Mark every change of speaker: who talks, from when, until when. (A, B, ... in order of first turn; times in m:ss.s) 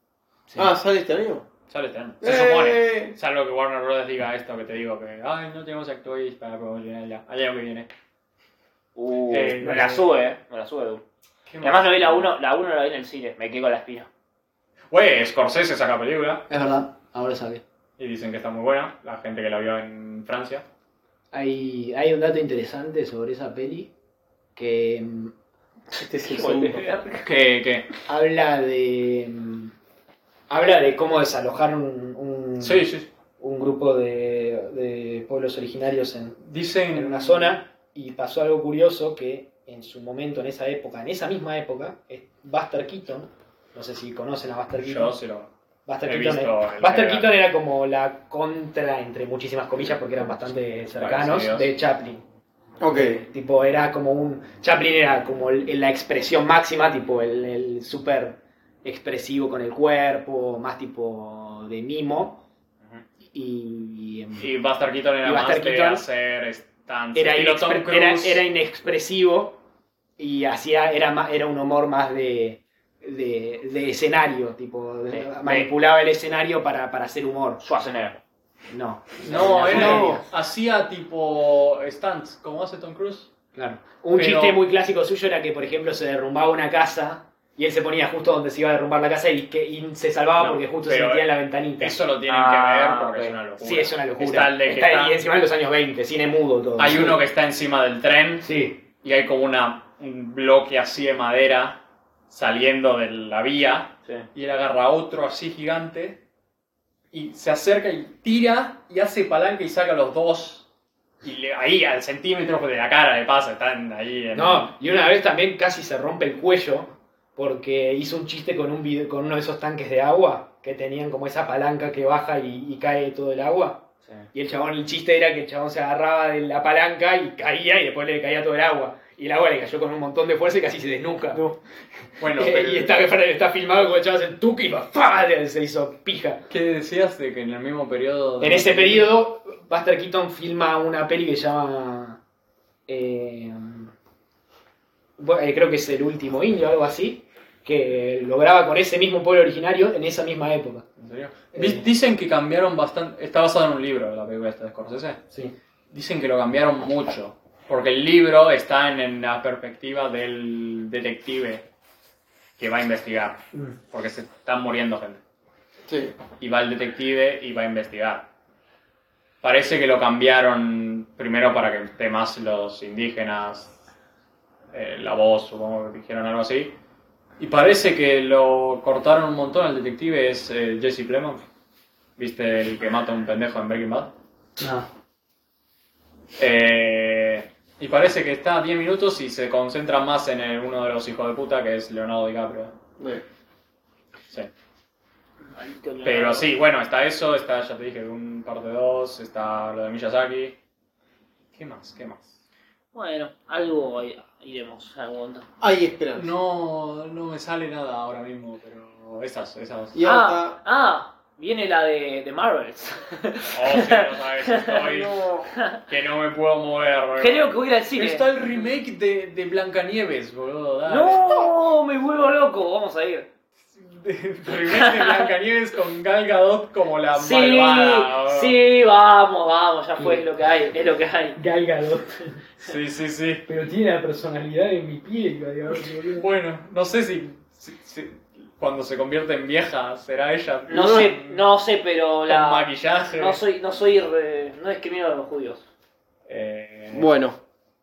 0:00.5-0:00.7 A
0:00.6-0:01.4 B
0:01.7-0:07.9 C
0:02.2-0:03.2 B
0:09.0-0:11.0 D
0:09.3-0:10.1 C
0:11.5-0:12.3 C
0:11.6-0:14.1 D
0:14.9-0:16.5 C
0:16.5-0:17.6 A
0:18.0-0:20.6 C
0:21.3-0:23.9 A
0:24.6-0:25.3 A
0:25.9-0:26.9 B
0:26.2-0:27.3 D
0:27.2-0:27.9 C
0:28.1-0:29.7 A
0:30.5-0:32.9 A
0:32.6-0:33.1 C
0:33.4-0:45.2 A
0:36.4-0:37.4 C
0:44.8-0:45.5 C
0:45.9-0:52.2 A
0:46.0-0:47.3 C
0:51.0-0:51.7 C
0:52.8-0:53.2 B
0:52.9-1:02.4 A
1:03.3-1:04.5 A
1:04.4-1:08.4 C
1:05.2-1:06.0 A
1:07.1-1:09.6 A
1:10.2-1:17.6 A
1:15.1-1:15.7 D
1:17.6-1:18.2 D
1:18.7-1:20.3 A
1:19.2-1:23.3 C
1:19.4-1:20.2 D
1:23.5-1:32.0 A
1:24.1-1:24.6 C
1:30.4-1:31.3 C
1:31.8-1:35.2 C
1:32.3-1:33.4 D
1:33.6-1:37.2 A
1:36.8-1:46.2 C
1:38.4-1:38.8 A
1:47.1-1:50.7 C
1:51.2-1:54.7 C
1:54.3-2:11.6 A
2:12.2-2:13.0 C
2:12.2-2:16.5 A
2:16.5-2:19.2 C
2:18.4-2:22.2 A
2:22.9-2:23.9 A
2:25.2-2:30.9 A
2:31.0-2:35.2 C
2:31.5-2:31.8 A
2:35.9-2:41.7 C
2:42.6-2:45.2 C
2:45.9-2:46.2 B
2:46.4-2:48.3 C
2:49.4-2:53.8 C
2:54.7-2:56.8 C
2:57.4-3:01.4 C
3:02.2-3:04.1 C
3:04.6-3:04.9 A
3:06.4-3:12.7 C
3:13.0-3:13.2 B
3:15.6-3:16.5 D
3:16.0-3:20.6 C
3:21.5-3:22.4 C
3:22.9-3:25.5 D
3:25.6-3:26.3 B
3:26.1-3:30.0 C
3:29.9-3:30.6 B
3:30.0-3:35.8 D
3:33.5-3:41.5 C
3:37.2-3:38.2 D
3:40.9-3:43.3 D
3:43.7-3:48.6 C
3:44.7-3:45.2 D
3:47.2-3:51.4 D
3:50.0-3:50.3 A
3:51.4-3:52.4 A
3:52.6-3:53.5 C
3:53.5-3:56.3 A
3:56.1-4:01.4 C
4:00.7-4:05.7 D
4:00.7-4:01.1 B
4:02.3-4:03.4 C
4:06.3-4:07.1 C
4:06.9-4:07.4 B